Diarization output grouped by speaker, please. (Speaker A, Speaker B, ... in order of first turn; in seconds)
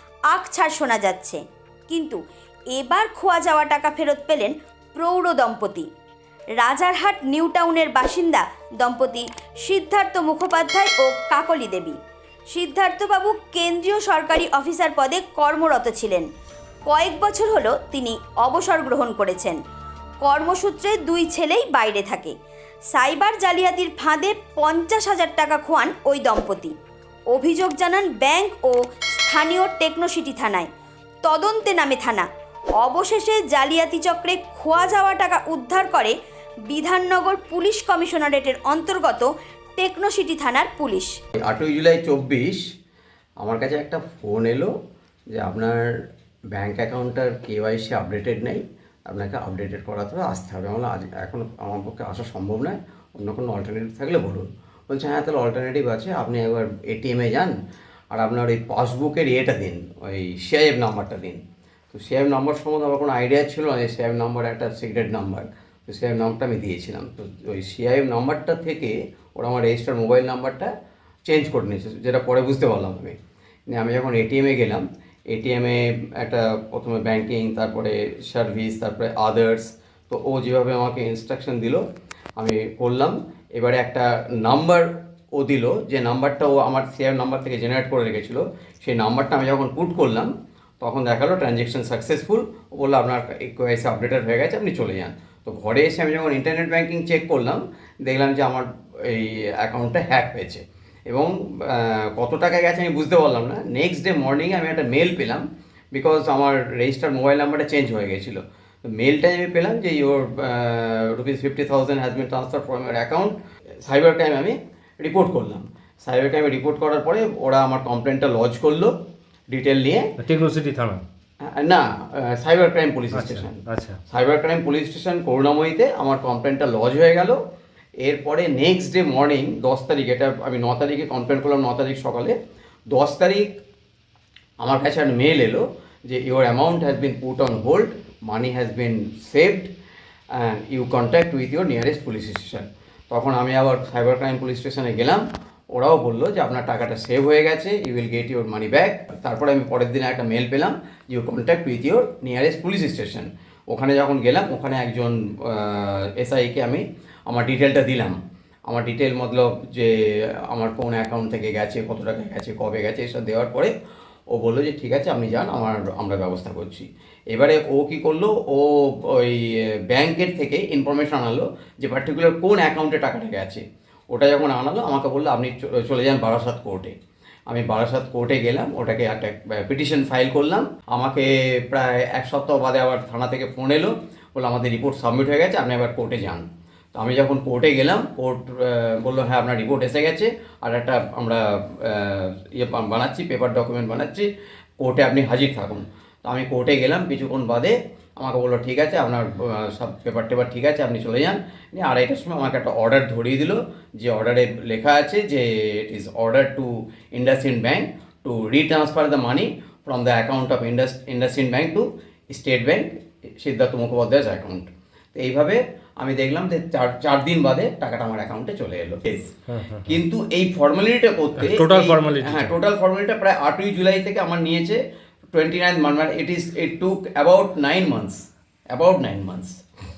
Speaker A: 0.3-2.2, 2.7-5.9, 6.6-12.0, 12.5-16.3, 16.9-19.6, 20.2-22.3, 22.9-26.7, 27.3-30.7, 31.2-32.3, 32.8-36.1, 36.7-41.1
Speaker B: 41.4-42.6, 43.4-44.7, 45.3-45.9, 46.5-57.5, 58.1-70.7, 71.3-73.2, 73.7-81.8, 82.4-118.9, 119.5-120.0, 121.5-127.4, 128.0-132.3, 132.9-133.5, 134.6-139.7, 140.3-145.2, 145.7-163.7, 164.3-176.9, 177.5-194.3, 194.8-219.3, 219.8-224.8, 225.3-228.2, 228.7-229.6
Speaker C: 120.2-121.0, 123.1-124.0, 219.5-220.0, 221.4-222.5